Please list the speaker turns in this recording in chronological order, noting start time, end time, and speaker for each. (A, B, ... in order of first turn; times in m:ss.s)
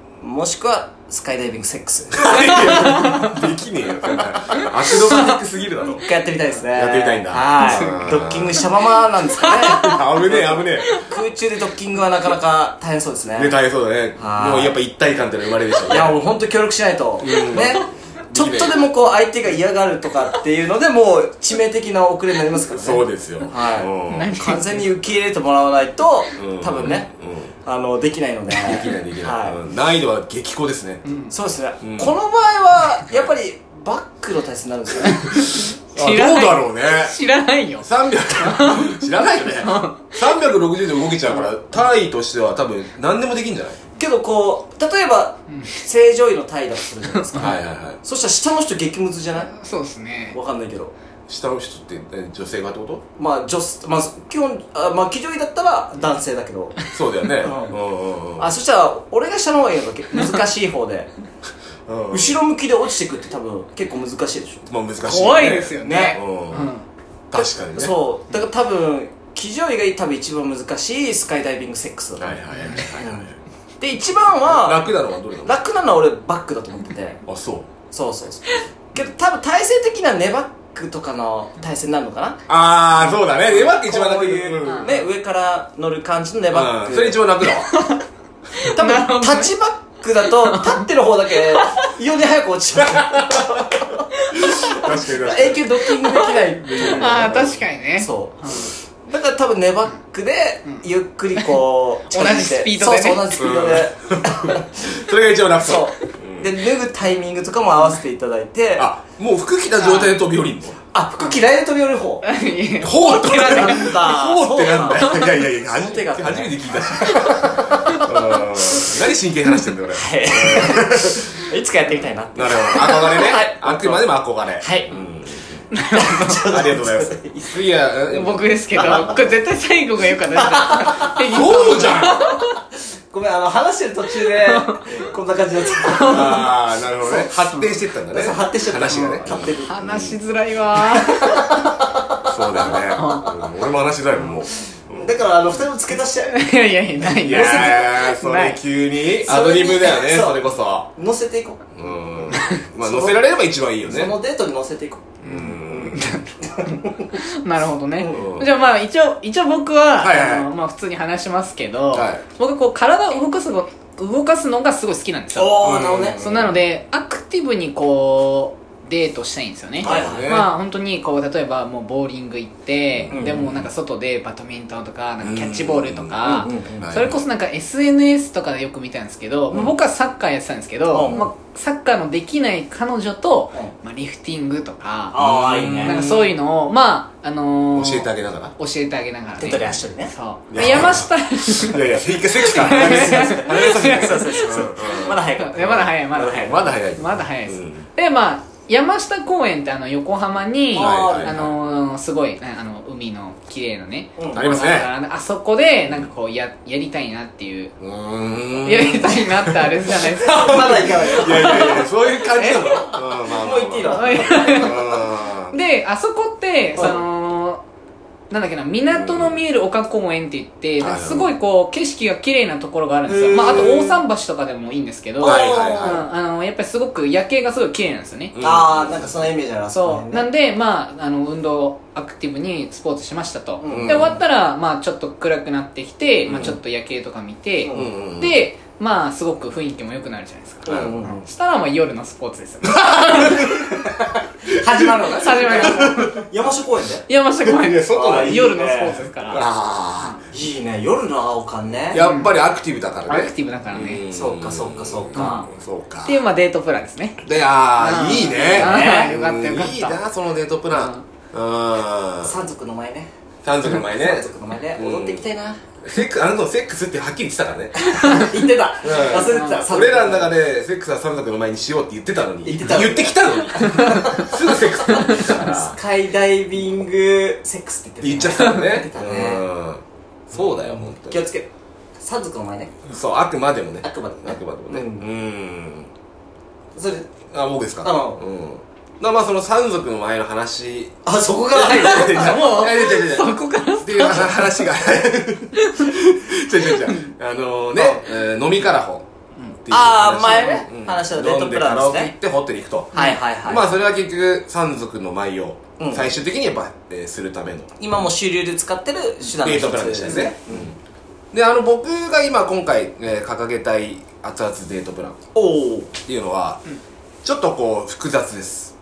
0:00.2-0:03.1 A
0:02.1-0:06.1 B
0:02.5-0:03.3 C
0:04.5-0:05.3 C
0:05.8-0:13.6 A
0:06.7-0:08.7 B
0:07.6-0:08.1 C
0:09.5-0:10.0 C
0:09.6-0:11.0 B
0:10.8-0:11.0 C
0:13.4-0:16.2 B
0:14.2-0:14.8 A
0:15.9-0:27.1 A
0:17.2-0:18.8 B
0:22.7-0:24.3 B
0:24.1-0:24.8 C
0:26.4-0:27.5 B
0:27.6-0:29.6 A
0:28.6-0:31.0 B
0:31.0-0:31.3 C
0:31.3-0:35.3 A
0:31.8-0:32.1 B
0:35.4-0:37.2 B
0:35.5-0:40.4 C
0:37.7-0:43.8 B
0:43.9-0:49.5 A
0:45.5-0:45.8 C
0:47.1-0:47.5 C
0:47.4-0:48.0 B
0:49.4-0:50.4 C
0:50.3-0:50.9 A
0:51.3-0:53.0 B
0:53.2-0:56.8 A
0:56.9-0:58.5 B
0:57.4-0:57.8 A
0:58.4-1:01.1 A
1:01.8-1:02.3 B
1:02.1-1:04.7 A
1:04.7-1:06.7 B
1:05.0-1:06.8 C
1:05.8-1:06.2 A
1:07.3-1:07.9 B
1:07.3-1:12.3 A
1:12.2-1:13.4 B
1:12.6-1:12.8 C
1:12.9-1:13.3 A
1:13.8-1:17.2 A
1:14.4-1:15.6 B
1:17.3-1:17.7 B
1:17.9-1:22.4 A
1:22.5-1:25.0 B
1:23.3-1:27.3 A
1:24.6-1:25.0 C
1:26.5-1:27.7 B
1:27.5-1:28.0 C
1:28.6-1:29.5 C
1:28.6-1:45.0 A
1:30.4-1:30.8 C
1:32.8-1:33.7 B
1:34.3-1:35.7 B
1:36.6-1:37.3 B
1:36.7-1:38.7 C
1:42.1-1:43.3 C
1:43.4-1:46.5 B
1:45.6-1:48.9 A
1:48.8-1:50.8 B
1:49.8-1:50.1 C
1:50.9-1:52.3 A
1:52.2-1:53.8 C
1:52.8-2:01.2 B
1:52.8-1:58.0 A
1:57.6-1:58.4 C
1:59.9-2:04.1 A
2:02.3-2:05.6 B
2:04.6-2:04.9 A
2:05.7-2:06.4 C
2:05.9-2:07.6 A
2:06.5-2:09.2 B
2:08.1-2:12.6 C
2:08.7-2:09.3 A
2:10.4-2:11.2 A
2:11.2-2:12.2 B
2:13.1-2:16.4 A
2:14.2-2:15.0 C
2:15.8-2:16.5 C
2:16.0-2:20.2 B
2:17.0-2:17.4 A
2:18.1-2:19.8 A
2:19.6-2:21.6 C
2:21.0-2:22.7 A
2:22.2-2:25.1 B
2:22.7-2:23.5 C
2:24.9-2:26.4 A
2:26.2-2:28.6 C
2:27.0-2:30.9 B
2:27.2-2:27.9 A
2:29.2-2:31.6 A
2:31.8-2:34.1 B
2:32.3-2:32.6 C
2:32.3-2:33.2 A
2:33.8-2:35.2 A
2:35.2-3:05.2 C
2:35.2-2:36.0 B
2:36.4-2:37.1 A
2:38.0-2:38.4 A
2:38.1-2:38.5 B
2:40.0-2:40.5 B
2:41.9-2:42.2 B
2:45.3-2:46.2 A
2:45.6-2:46.6 B
2:49.8-2:50.5 B
2:49.8-2:50.3 A
2:52.9-2:53.7 B
2:53.1-2:53.5 A
2:55.2-2:56.2 B
2:56.2-2:57.0 A
2:56.8-2:57.2 B
3:00.9-3:01.2 A
3:01.0-3:01.3 B
3:05.1-3:06.0 A
3:05.1-3:06.3 B
3:05.8-3:27.7 C
3:07.7-3:08.5 B
3:09.4-3:10.1 A
3:10.5-3:17.9 B
3:12.4-3:16.7 A
3:20.7-3:21.5 A
3:20.8-3:21.4 B
3:24.2-3:24.5 A
3:24.3-3:24.9 B
3:27.8-3:35.6 B
3:28.6-3:31.8 C
3:30.2-3:34.9 A
3:32.4-3:32.6 C
3:33.9-3:35.0 C
3:35.5-3:37.6 C
3:36.7-3:37.0 A
3:38.3-3:48.4 C
3:38.9-3:39.4 B
3:40.8-3:41.3 B
3:43.0-3:44.0 A
3:45.2-3:46.0 A
3:45.2-3:46.0 B
3:48.3-3:49.3 B
3:48.4-3:50.3 A
3:49.7-4:03.5 C
3:53.6-3:54.1 A
3:53.7-3:54.2 B
3:56.2-3:56.6 B
3:56.3-3:56.5 A
3:57.6-3:58.0 A
3:57.7-3:58.4 B
4:00.6-4:01.3 A
4:00.6-4:01.0 B
4:02.9-4:03.4 B
4:03.2-4:07.1 A
4:04.8-4:06.0 B
4:05.0-4:06.2 C
4:07.1-4:09.4 C
4:07.4-4:08.5 B
4:07.9-4:09.0 A
4:09.3-4:10.2 B
4:10.3-4:12.0 A
4:11.9-4:16.2 B
4:11.9-4:12.4 C
4:13.0-4:14.0 C
4:14.1-4:15.5 A
4:15.1-4:15.5 C
4:16.0-4:20.0 C
4:17.2-4:22.3 B
4:18.5-4:19.1 A
4:20.7-4:21.0 C
4:22.2-4:23.1 A
4:23.4-4:25.2 B
4:23.6-4:25.6 A
4:25.8-4:28.2 B
4:27.7-4:30.3 A
4:28.8-4:35.8 B
4:32.4-4:39.4 A
4:38.0-4:41.2 B
4:40.4-4:42.7 A
4:42.9-4:45.9 B
4:43.8-4:45.1 A
4:46.7-4:47.1 A
4:47.3-4:50.9 B
4:47.8-4:48.2 A
4:51.0-4:52.6 A
4:51.6-4:59.0 B
4:51.7-4:54.6 C
4:55.5-4:55.9 C
4:56.6-4:57.1 C
4:57.8-4:58.0 A
4:59.6-5:07.7 B
4:59.7-5:02.1 A
5:02.9-5:03.2 C
5:02.9-5:03.7 A
5:05.8-5:06.1 A
5:07.8-5:10.7 A
5:09.4-5:10.8 B
5:11.3-5:15.2 B
5:15.3-5:15.9 A
5:16.0-5:16.6 B
5:17.2-5:18.7 B